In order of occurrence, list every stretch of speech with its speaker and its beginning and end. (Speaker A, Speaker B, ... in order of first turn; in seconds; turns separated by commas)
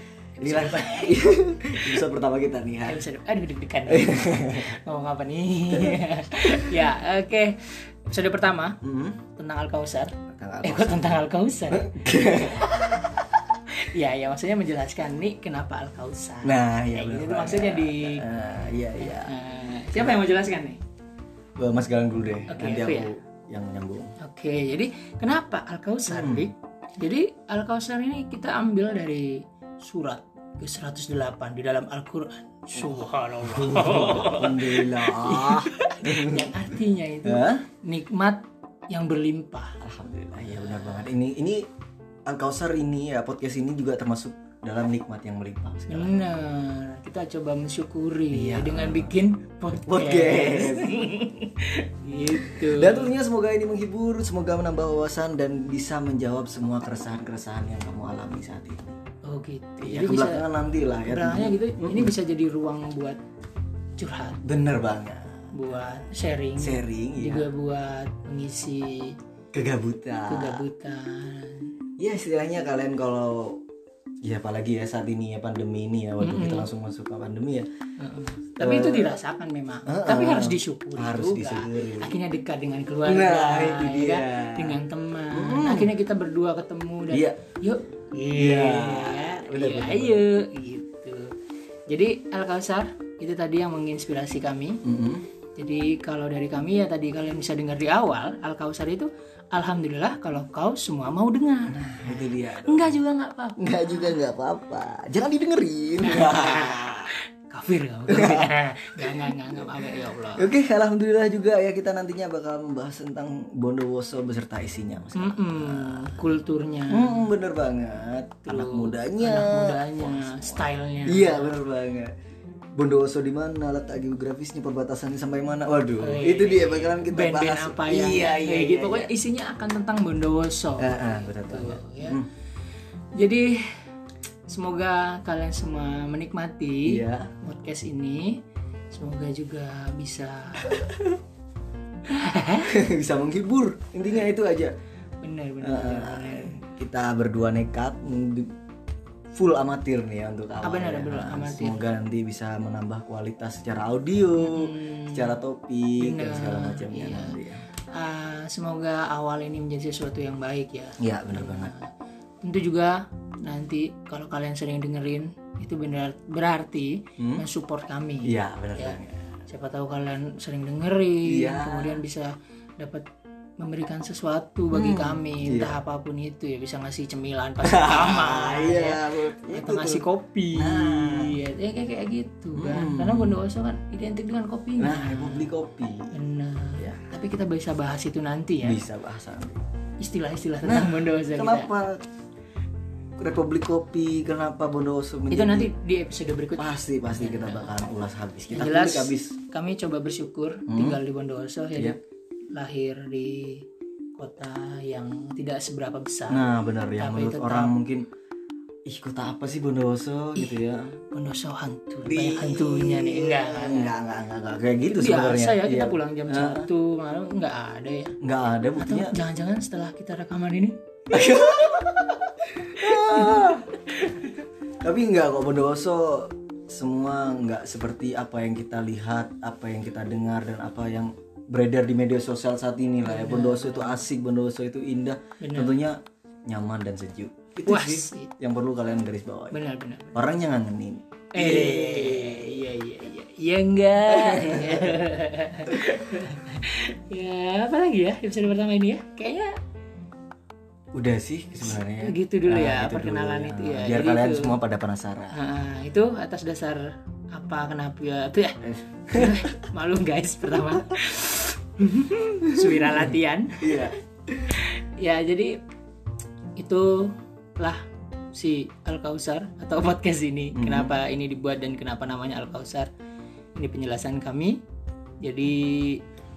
Speaker A: 0.4-2.0, Speaker B: 0.4-3.0, Speaker A: 2.8-8.8, Speaker B: 3.9-4.8, Speaker B: 5.7-6.0, Speaker B: 8.8-9.2, Speaker A: 9.3-18.3, Speaker B: 10.3-12.7, Speaker B: 16.4-19.4, Speaker A: 19.0-20.8, Speaker B: 19.9-20.2, Speaker B: 21.6-24.1, Speaker A: 22.5-23.1, Speaker A: 24.2-39.8, Speaker B: 26.1-26.5, Speaker B: 32.8-36.6, Speaker B: 37.2-37.6, Speaker B: 39.8-41.7, Speaker A: 40.6-41.0, Speaker B: 42.3-46.3, Speaker A: 45.9-53.1, Speaker B: 48.3-49.2, Speaker B: 49.9-51.1, Speaker B: 52.3-59.0, Speaker A: 59.2-60.5, Speaker B: 59.8-62.1, Speaker A: 61.0-63.2, Speaker A: 64.0-64.4, Speaker B: 64.4-65.7, Speaker A: 65.5-69.2, Speaker B: 66.6-67.5, Speaker B: 69.5-70.7, Speaker A: 70.3-71.7, Speaker B: 72.0-73.6, Speaker B: 74.2-77.7, Speaker A: 76.2-76.7, Speaker A: 78.0-91.3, Speaker B: 78.6-79.2, Speaker B: 79.9-82.2, Speaker B: 83.0-84.8, Speaker B: 85.3-85.9, Speaker B: 87.1-87.4, Speaker B: 88.3-90.2, Speaker A: 91.9-94.8, Speaker B: 94.8-95.2, Speaker A: 95.6-104.2, Speaker B: 101.7-103.0, Speaker B: 103.6-107.1, Speaker A: 106.0-110.5, Speaker B: 108.1-109.7, Speaker B: 110.4-116.3, Speaker A: 115.2-117.3, Speaker B: 116.9-122.1, Speaker A: 118.5-121.6, Speaker B: 122.8-129.1, Speaker A: 126.0-132.2, Speaker B: 130.8-132.3, Speaker A: 133.2-133.8, Speaker A: 134.5-138.4, Speaker B: 136.9-137.3, Speaker A: 138.9-140.9, Speaker A: 142.1-142.7, Speaker B: 142.7-144.7, Speaker A: 145.2-146.6, Speaker B: 145.6-148.5, Speaker B: 149.3-157.7, Speaker A: 150.6-151.9, Speaker A: 154.4-155.4, Speaker A: 156.0-157.4, Speaker A: 157.9-161.9, Speaker B: 161.0-161.7, Speaker A: 162.4-173.1, Speaker B: 167.2-167.4, Speaker B: 168.3-169.3, Speaker B: 171.2-172.0, Speaker A: 173.6-185.5, Speaker B: 174.7-175.8, Speaker B: 177.6-180.1, Speaker B: 180.6-181.4, Speaker B: 182.6-183.4, Speaker B: 184.8-186.2, Speaker A: 186.1-188.8, Speaker B: 188.6-189.6, Speaker A: 190.0-191.7, Speaker B: 190.6-192.0, Speaker B: 193.2-195.7, Speaker A: 195.3-197.8, Speaker B: 196.6-199.4, Speaker A: 198.5-202.0, Speaker B: 200.7-201.0, Speaker A: 202.6-203.7, Speaker A: 204.2-207.8, Speaker B: 206.3-208.1, Speaker B: 208.9-211.0, Speaker A: 210.4-214.0, Speaker B: 212.1-216.7, Speaker A: 214.8-218.2, Speaker B: 218.2-219.2, Speaker A: 218.8-220.8, Speaker B: 221.1-224.3, Speaker A: 222.8-223.6, Speaker B: 224.8-239.6, Speaker A: 233.1-234.0, Speaker A: 235.4-235.8, Speaker A: 237.7-238.3, Speaker A: 239.5-240.2, Speaker B: 240.2-242.7, Speaker A: 241.3-249.5, Speaker B: 244.1-245.0, Speaker B: 250.9-255.4, Speaker A: 251.7-254.6, Speaker A: 255.3-263.9, Speaker B: 258.6-259.5, Speaker B: 262.5-264.0, Speaker A: 264.5-265.6, Speaker A: 266.6-272.9, Speaker B: 270.6-271.0, Speaker A: 273.6-274.6, Speaker A: 275.2-276.0